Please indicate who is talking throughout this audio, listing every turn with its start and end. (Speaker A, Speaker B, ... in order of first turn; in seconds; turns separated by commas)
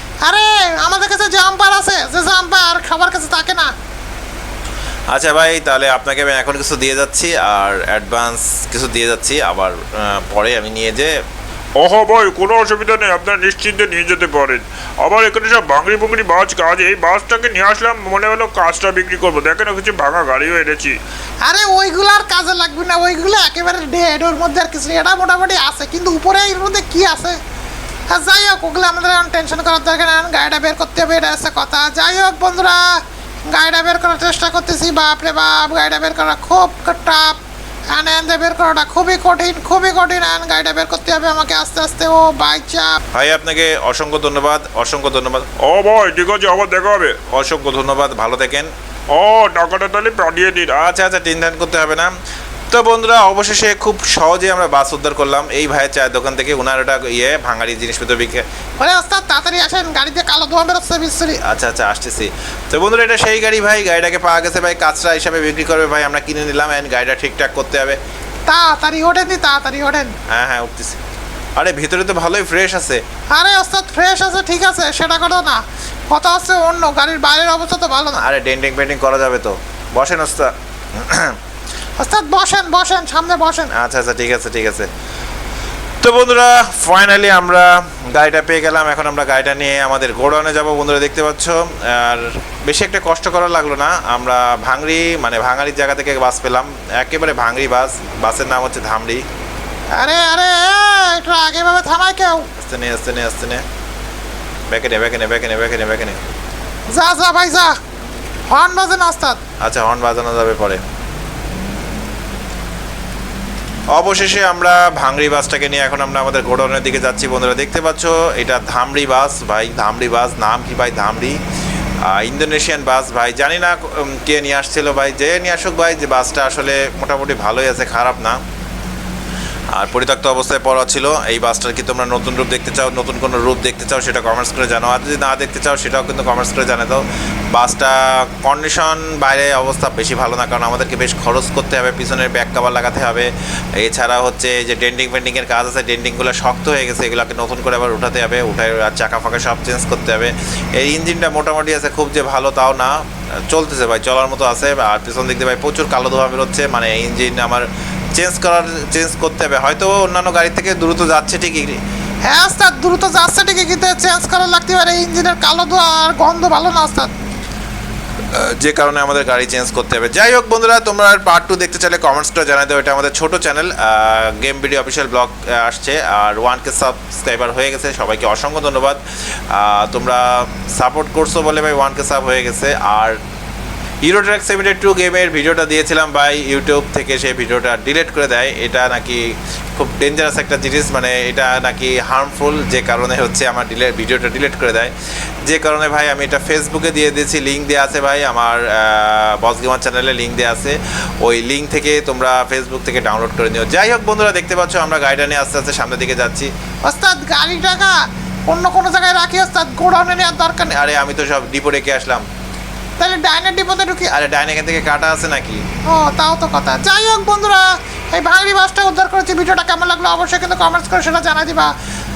Speaker A: 0.2-3.7, Speaker B: 5.1-11.2, Speaker C: 11.8-21.0, Speaker A: 21.4-27.4, Speaker A: 28.1-37.4, Speaker A: 37.9-43.0, Speaker B: 43.1-45.5, Speaker C: 45.6-47.2, Speaker B: 47.3-48.7, Speaker C: 49.1-50.8, Speaker B: 50.8-52.1, Speaker B: 52.7-58.4, Speaker A: 58.8-61.4, Speaker B: 61.4-68.0, Speaker A: 68.5-70.1, Speaker B: 70.3-71.0, Speaker B: 71.6-73.0, Speaker A: 73.3-78.2, Speaker B: 78.2-81.4, Speaker A: 82.0-83.7, Speaker B: 83.7-84.9, Speaker B: 86.0-99.2, Speaker A: 100.0-102.5, Speaker B: 102.6-103.6, Speaker B: 104.7-106.2, Speaker A: 106.9-107.8, Speaker A: 108.5-109.4, Speaker B: 109.6-110.8, Speaker B: 113.9-121.4, Speaker B: 122.1-128.4, Speaker B: 129.7-153.0, Speaker B: 153.5-161.8, Speaker A: 162.3-167.1, Speaker B: 168.3-183.2, Speaker B: 184.0-194.9, Speaker B: 195.5-206.5, Speaker A: 206.8-208.0, Speaker A: 208.5-210.7, Speaker B: 210.7-212.2, Speaker A: 213.0-214.1, Speaker B: 214.1-215.6, Speaker A: 215.9-221.7